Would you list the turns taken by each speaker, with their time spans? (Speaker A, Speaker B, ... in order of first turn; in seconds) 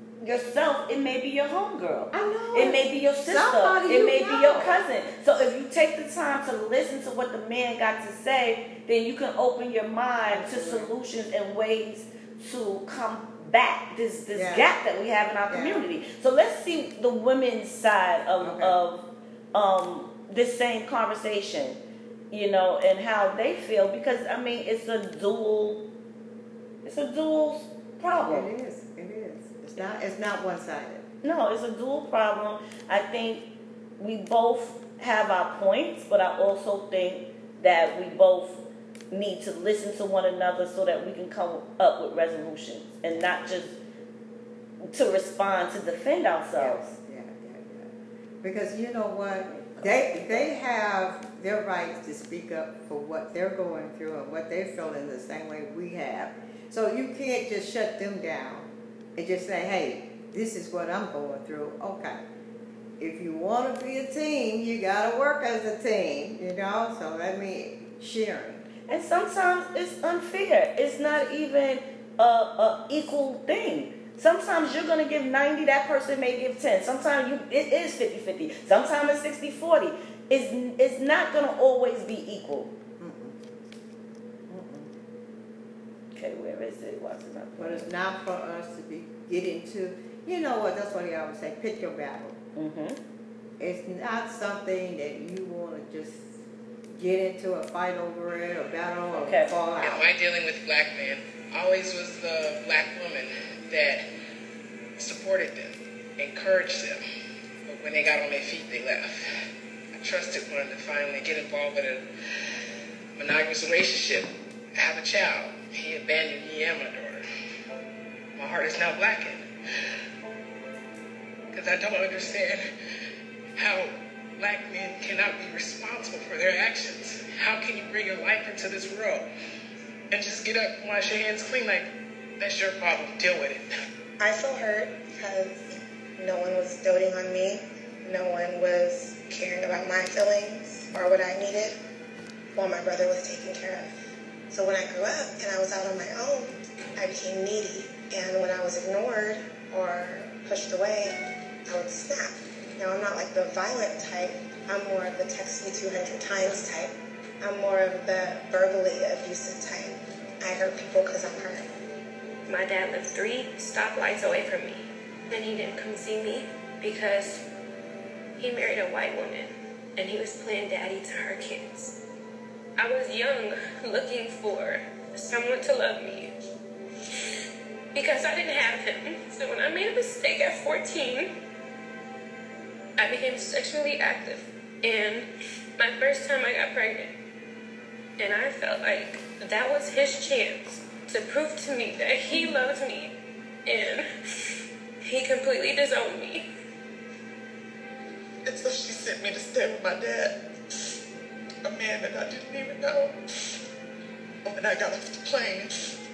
Speaker A: 0.2-21.8, 22.3-25.8, 26.8-28.5, 31.2-33.5, 34.0-43.7, 44.8-46.8, 49.5-50.5, 68.9-82.7, 86.1-87.9, 92.5-93.0, 99.1-99.5
Speaker B: 2.1-4.8, 10.3-10.9, 14.3-14.7, 15.5-15.9, 18.4-18.8, 28.2-31.0, 46.5-62.2, 63.0-68.7, 83.0-83.4, 84.5-84.9, 87.6-92.3, 93.6-96.3, 96.9-100.1
Speaker C: 99.8-104.0, 105.0-107.0, 107.7-109.2, 110.0-112.0, 113.2-117.2, 118.3-119.5, 121.5-122.6, 123.6-129.2, 130.1-131.9, 132.4-133.6
Speaker D: 134.2-141.7, 142.5-143.9, 144.5-151.1, 151.7-161.7
Speaker E: 162.5-167.4, 168.4-171.9, 172.8-176.3, 177.9-181.3, 183.0-187.1, 188.2-193.1, 193.7-194.0, 195.0-196.4
Speaker F: 198.4-200.3, 201.6-203.1, 204.5-205.7